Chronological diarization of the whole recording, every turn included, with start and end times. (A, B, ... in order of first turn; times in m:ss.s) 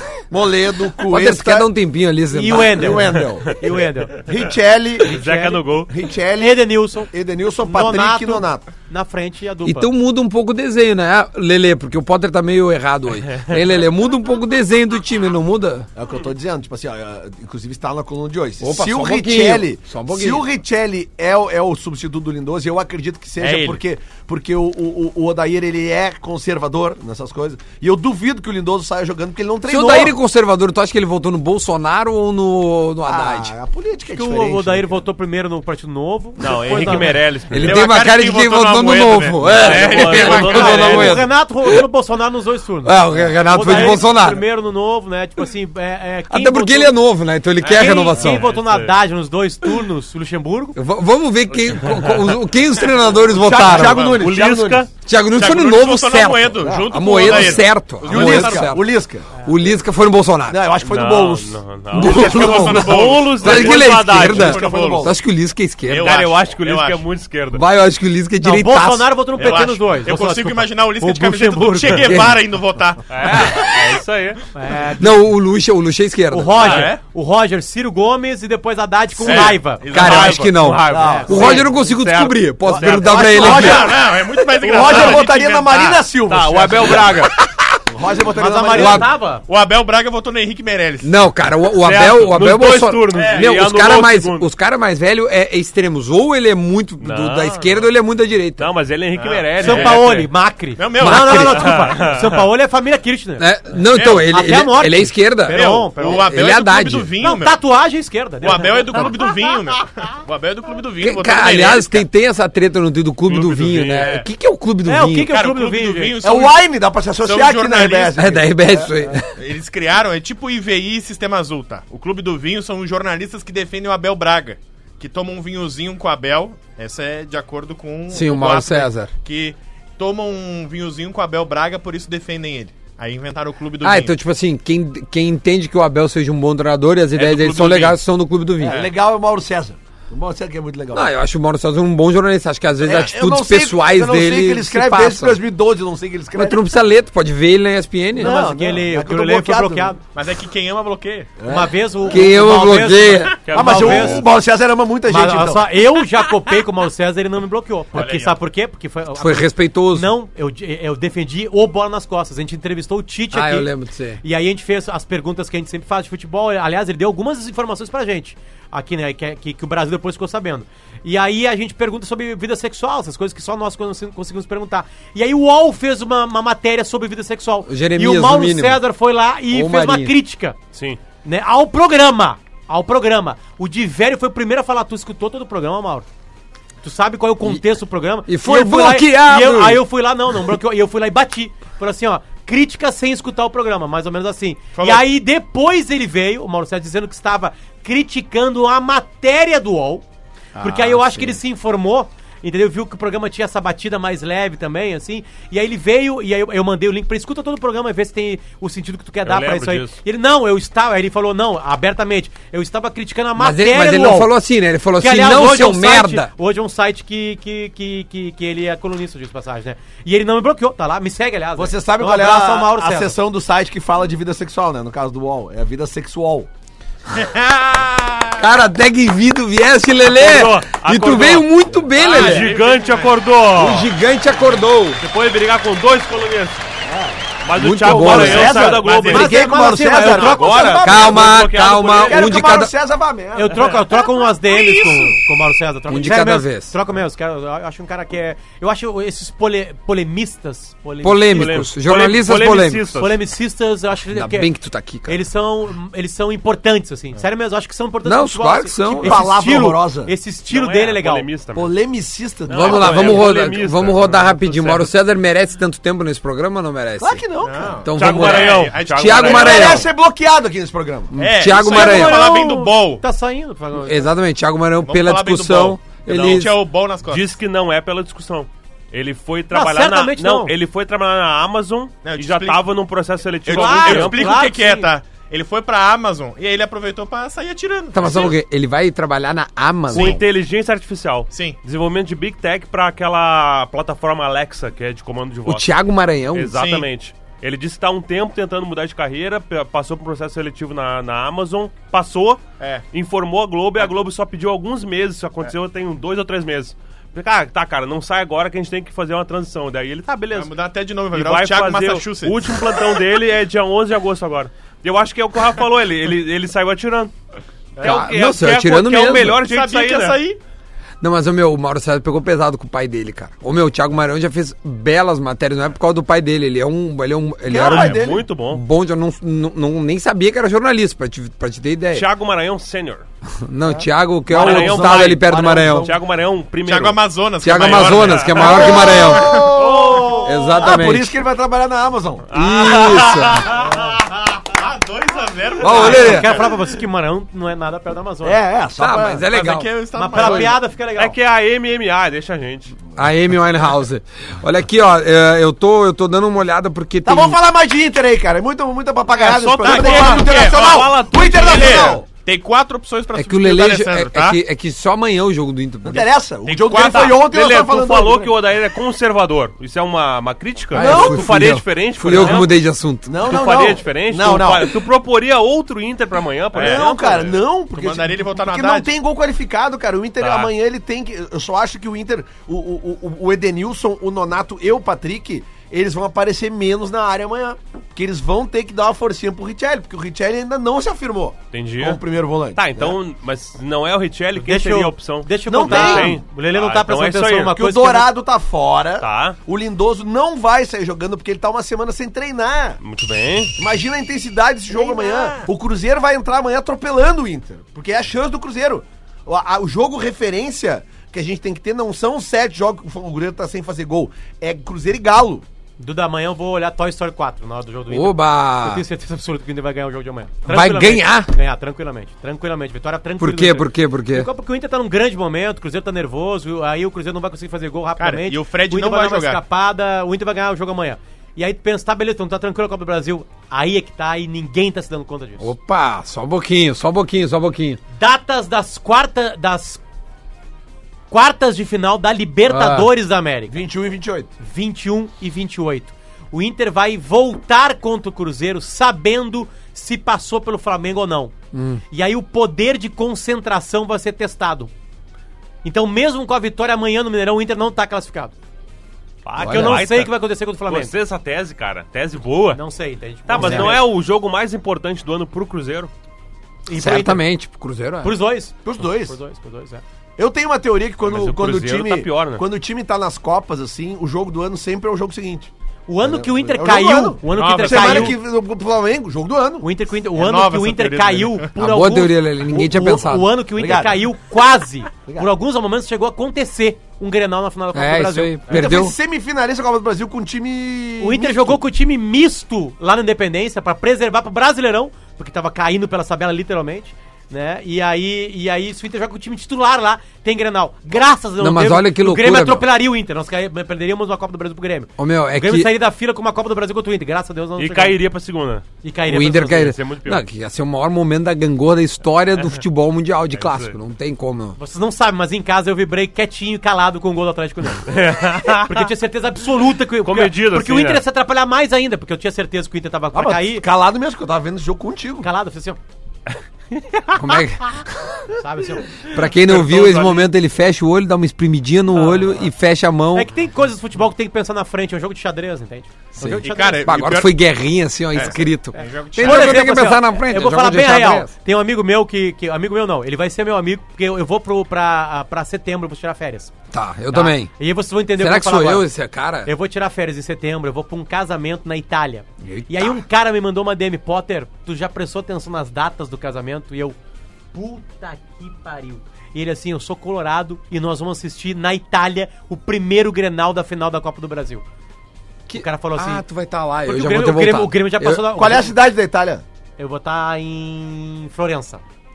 0:00.3-0:01.7 A
0:01.1-0:03.0 B
0:02.3-0:04.3 C
0:02.5-0:03.7 A
0:04.3-0:05.2 A
0:05.0-0:05.9 D
0:05.0-0:05.8 C
0:05.9-0:08.7 A
0:06.4-0:07.1 C
0:07.6-0:09.9 C
0:09.6-0:15.9 B
0:16.0-0:30.2 A
0:18.6-0:20.4 B
0:23.4-0:23.8 E
0:29.6-0:33.5 B
0:33.1-0:35.0 A
0:34.1-0:37.2 C
0:36.4-0:37.9 D
0:37.5-0:41.8 B
0:37.5-0:41.0 E
0:39.5-0:41.2 D
0:39.9-0:47.0 C
0:42.8-0:44.4 B
0:46.3-0:48.5 B
0:47.6-0:48.3 E
0:47.6-0:50.8 C
0:48.3-0:48.9 D
0:50.8-0:54.2 B
0:51.6-0:52.4 D
0:53.3-0:54.9 A
0:53.6-0:54.9 D
0:55.0-0:58.8 B
0:55.3-0:58.8 E
0:56.6-0:59.3 A
0:59.4-1:00.6 B
1:00.5-1:01.6 A
1:00.8-1:04.6 D
1:01.9-1:06.2 B
1:02.0-1:05.1 E
1:03.5-1:05.2 A
1:05.8-1:07.0 E
1:06.0-1:07.7 D
1:07.5-1:09.1 B
1:08.4-1:12.2 C
1:09.3-1:13.0 E
1:12.0-1:12.4 B
1:13.1-1:14.4 D
1:13.3-1:14.0 B
1:14.5-1:15.3 C
1:15.0-1:16.8 B
1:16.3-1:21.6 C
1:16.6-1:16.9 D
1:16.6-1:17.0 E
1:19.2-1:20.7 E
1:19.3-1:23.8 D
1:19.9-1:23.9 B
1:20.9-1:21.7 A
1:22.6-1:29.1 A
1:23.3-1:26.1 E
1:24.8-1:25.2 D
1:26.3-1:27.4 D
1:28.3-1:29.4 C
1:28.7-1:29.1 B
1:28.9-1:31.2 E
1:31.0-1:38.7 B
1:31.7-1:34.5 D
1:33.1-1:33.5 E
1:37.0-1:37.9 D
1:38.6-1:40.3 D
1:39.2-1:40.0 E
1:39.6-1:43.5 C
1:40.8-1:41.8 E
1:41.0-1:41.7 B
1:41.5-1:42.4 D
1:43.4-1:47.1 B
1:43.9-1:44.3 E
1:44.0-1:46.3 C
1:45.5-1:47.6 E
1:47.2-1:49.1 C
1:48.4-1:52.0 E
1:51.0-1:55.3 B
1:53.3-1:54.2 D
1:54.0-1:54.3 E
1:54.8-1:56.2 C
1:55.3-1:56.6 E
1:56.2-1:59.2 A
1:57.2-1:58.2 E
1:58.2-1:59.3 B
1:59.4-2:14.2 E
2:08.1-2:09.1 B
2:13.8-2:18.8 B
2:17.2-2:18.0 E
2:18.6-2:21.1 A
2:18.6-2:18.9 E
2:20.9-2:25.4 B
2:22.8-2:26.6 A
2:22.8-2:23.2 E
2:26.3-2:28.4 B
2:28.2-2:30.0 A
2:28.2-2:30.0 C
2:30.1-2:31.3 E
2:31.4-2:32.5 A
2:31.5-2:34.3 C
2:32.1-2:33.3 B
2:33.5-2:34.3 D
2:33.5-2:35.7 A
2:35.1-2:43.7 C
2:37.9-2:38.4 E
2:39.2-2:40.1 B
2:43.3-2:44.2 B
2:44.2-3:00.6 C
2:57.7-2:58.8 B
2:59.5-3:00.1 B
3:00.7-3:01.0 D
3:01.2-3:06.1 C
3:06.8-3:20.0 C
3:08.3-3:09.8 B
3:14.8-3:15.0 E
3:20.6-3:21.4 B
3:20.6-3:34.3 C
3:29.2-3:30.0 D
3:33.4-3:36.3 B
3:35.0-3:43.2 C
3:41.6-3:46.5 A
3:47.1-3:48.5 E
3:48.4-3:52.6 B
3:50.1-3:53.9 D
3:52.0-3:53.1 E
3:53.6-3:55.0 B
3:55.0-3:56.7 D
3:56.8-3:57.2 A
3:57.4-4:02.4 D
3:57.6-3:58.7 B
3:57.8-4:03.7 A
3:58.5-3:59.4 E
3:59.0-4:00.9 C
4:00.8-4:02.7 B
4:03.4-4:11.6 C
4:03.7-4:05.2 E
4:05.9-4:06.7 B
4:11.0-4:12.9 B
4:11.3-4:13.2 D
4:12.9-4:14.5 C
4:14.1-4:15.2 B
4:15.1-4:21.3 C
4:18.0-4:19.2 B
4:18.9-4:20.1 A
4:20.5-4:21.7 D
4:21.6-4:23.3 A
4:22.5-4:24.9 D
4:22.5-4:27.3 B
4:27.0-4:27.8 A
4:27.4-4:29.8 E
4:27.8-4:29.9 B
4:28.0-4:29.9 D
4:29.2-4:31.2 A
4:31.1-4:32.3 B
4:31.2-4:33.0 E
4:31.5-4:34.1 C
4:33.8-4:36.6 B
4:34.8-4:37.3 E
4:37.1-4:44.4 D
4:39.5-4:40.5 C
4:42.0-4:42.6 E
4:43.5-4:48.4 E
4:43.5-4:44.9 C
4:47.9-4:50.2 B
4:49.9-4:55.7 D
4:49.9-4:50.2 E
4:51.3-4:51.6 E
4:55.5-4:56.6 B
4:56.3-5:10.5 D
4:56.5-4:56.9 E
5:10.3-5:12.8 E
5:11.1-5:17.1 D
5:17.8-5:18.1 E
5:17.8-5:20.2 D
5:17.8-5:19.4 B
5:19.3-5:20.4 E
5:21.0-5:32.1 B
5:27.5-5:28.3 A
5:27.6-5:28.6 D
5:31.9-5:33.0 D
5:33.4-5:35.9 B
5:33.7-5:36.0 A
5:34.3-5:37.0 D
5:36.6-5:40.3 E
5:37.4-5:39.5 B
5:37.7-5:40.4 D
5:38.4-5:42.3 A
5:40.2-5:41.1 B
5:42.3-5:44.0 D
5:42.3-5:43.5 B
5:43.5-5:46.6 E
5:43.6-5:43.9 A
5:45.6-5:46.3 B
5:45.7-5:48.4 C
5:48.2-5:49.3 A
5:48.8-5:50.5 B
5:49.3-5:50.6 E
5:49.9-5:51.2 C
5:51.0-5:52.8 D
5:53.0-5:57.4 B
5:57.0-6:02.1 A
5:59.1-6:02.0 D
5:59.6-6:04.4 E
6:03.2-6:06.1 B
6:05.8-6:08.3 A
6:06.5-6:07.2 E
6:06.5-6:12.5 D
6:10.7-6:13.2 B
6:10.8-6:11.6 A
6:12.1-6:12.5 A
6:13.1-6:14.8 A
6:13.2-6:17.4 D
6:16.6-6:16.9 E
6:16.6-6:33.0 A
6:17.7-6:18.9 E
6:20.2-6:20.5 D
6:31.5-6:32.0 D
6:32.5-6:37.6 D
6:34.4-6:38.1 C
6:35.5-6:36.2 A
6:37.5-6:42.8 A
6:39.0-6:39.4 D
6:42.8-6:43.6 D
6:43.6-6:55.4 A
6:44.7-6:45.5 E
6:55.8-7:15.5 C
6:57.9-6:58.8 B
7:00.5-7:01.3 B
7:03.2-7:04.3 B
7:08.0-7:09.4 E
7:15.4-7:17.8 B
7:18.0-7:19.8 C
7:21.1-7:23.6 C
7:22.5-7:22.9 B
7:23.5-7:24.3 A
7:24.4-7:31.3 C
7:31.5-7:31.8 B
7:31.9-7:34.7 C
7:35.6-7:38.3 C
7:39.2-7:42.6 D
7:39.4-7:39.8 B
7:39.4-7:40.9 C
7:42.5-7:43.9 C
7:43.3-7:45.9 D
7:43.4-7:43.7 B
7:46.7-7:47.3 C
7:46.7-7:48.2 B
7:48.0-7:49.8 C
7:48.6-7:49.2 A
7:50.2-7:59.7 A
7:51.0-7:52.4 D
7:55.9-7:58.2 C
7:57.3-7:58.2 E
7:59.6-8:08.6 C
8:00.2-8:01.6 E
8:01.6-8:03.3 B
8:03.6-8:04.1 A
8:07.7-8:09.0 B
8:08.5-8:11.6 A
8:11.0-8:28.0 C
8:21.4-8:22.6 B
8:25.0-8:25.7 B
8:27.6-8:28.6 D
8:28.8-8:29.7 C
8:29.1-8:34.6 B
8:29.5-8:30.2 D
8:33.4-8:33.8 D
8:34.6-8:43.7 C
8:37.8-8:38.9 D
8:40.0-8:41.0 D
8:43.1-8:45.3 A
8:45.2-8:45.8 C
8:47.1-8:48.2 B
8:48.3-8:48.9 C
8:49.0-8:53.3 B
8:49.3-8:50.3 D
8:52.0-8:52.4 C
8:53.1-8:56.9 C
8:56.2-9:01.3 B
8:56.4-8:57.3 E
8:58.1-8:59.8 E
8:58.8-9:06.5 C
9:06.7-9:07.5 B
9:07.1-9:08.9 C
9:08.2-9:09.5 B
9:09.4-9:17.0 C
9:12.4-9:13.0 B
9:17.5-9:24.6 C
9:25.5-9:28.2 B
9:25.5-9:26.2 C
9:26.8-9:28.8 C
9:28.2-9:29.4 A
9:29.8-9:31.8 C